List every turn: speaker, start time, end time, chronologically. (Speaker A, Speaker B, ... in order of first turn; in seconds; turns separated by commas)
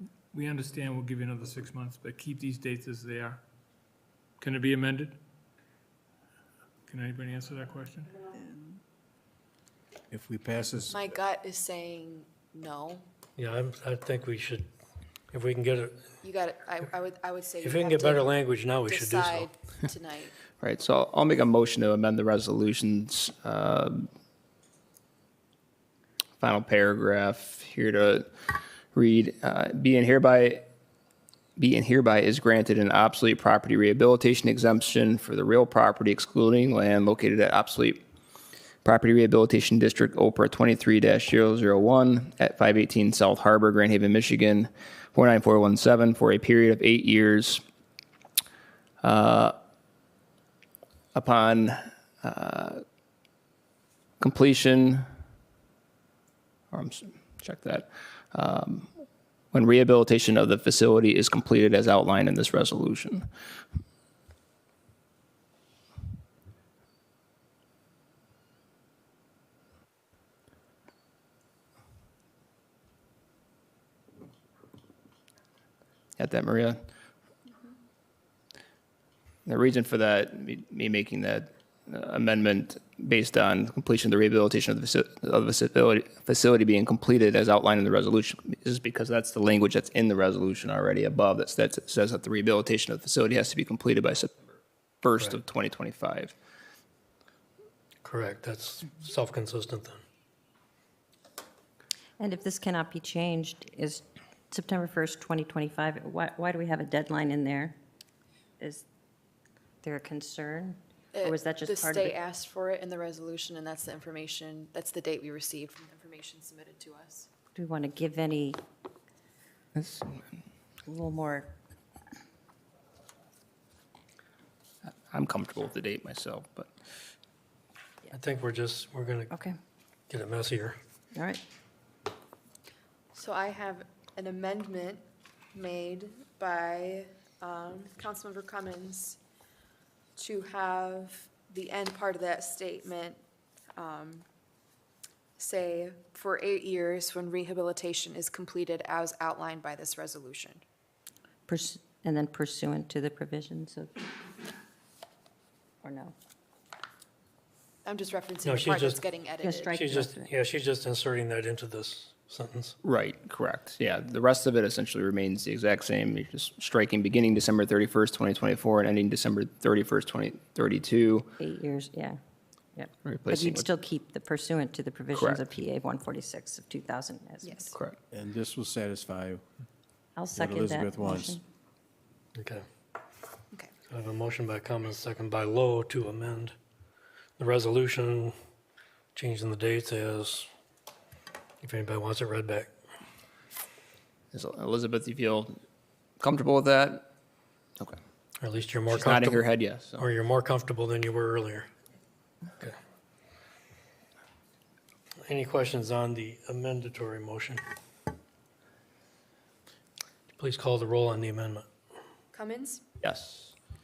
Speaker A: 0.3-3.4, Speaker A: 4.4-5.2, Speaker A: 6.9-8.1, Speaker B: 10.1-11.0, Speaker C: 10.9-13.1, Speaker D: 13.4-14.7, Speaker D: 15.3-16.0, Speaker C: 16.2-18.3, Speaker D: 17.6-19.5, Speaker C: 18.9-20.4, Speaker E: 20.6-24.1, Speaker E: 26.4-30.6, Speaker E: 31.6-38.0, Speaker E: 38.8-47.6, Speaker E: 49.0-49.5, Speaker E: 51.1-52.8, Speaker E: 54.2-55.0, Speaker E: 56.7-58.9, Speaker E: 59.5-63.3, Speaker E: 76.2-76.8, Speaker E: 79.5-94.5, Speaker E: 95.0-96.3, Speaker D: 98.0-100.0, Speaker F: 102.2-107.8, Speaker F: 109.8-112.1, Speaker C: 111.1-117.3, Speaker F: 117.5-118.6, Speaker E: 119.8-120.1, Speaker F: 120.9-121.5, Speaker E: 124.9-126.7, Speaker D: 128.1-129.3, Speaker D: 130.1-130.8, Speaker C: 133.1-139.2, Speaker C: 140.2-143.2, Speaker C: 143.8-144.2, Speaker C: 145.4-150.6, Speaker F: 151.5-153.9, Speaker F: 155.8-156.1, Speaker C: 157.8-159.9, Speaker D: 158.4-159.0, Speaker F: 159.4-160.3, Speaker D: 159.8-162.8, Speaker E: 162.8-171.3, Speaker F: 171.4-172.2, Speaker F: 172.8-177.5, Speaker E: 173.0-173.7, Speaker E: 175.1-175.4, Speaker C: 177.4-177.7, Speaker B: 178.1-179.4, Speaker F: 180.2-181.4, Speaker B: 180.3-181.4, Speaker D: 182.3-182.6, Speaker D: 183.9-186.5, Speaker D: 187.4-188.3, Speaker D: 189.1-190.5, Speaker D: 191.6-192.7, Speaker E: 194.3-195.6, Speaker E: 196.2-197.1, Speaker D: 198.4-199.4, Speaker E: 198.9-200.0, Speaker D: 200.0-201.7, Speaker D: 205.2-207.6, Speaker D: 210.3-211.7, Speaker C: 212.3-212.8, Speaker E: 213.0-213.5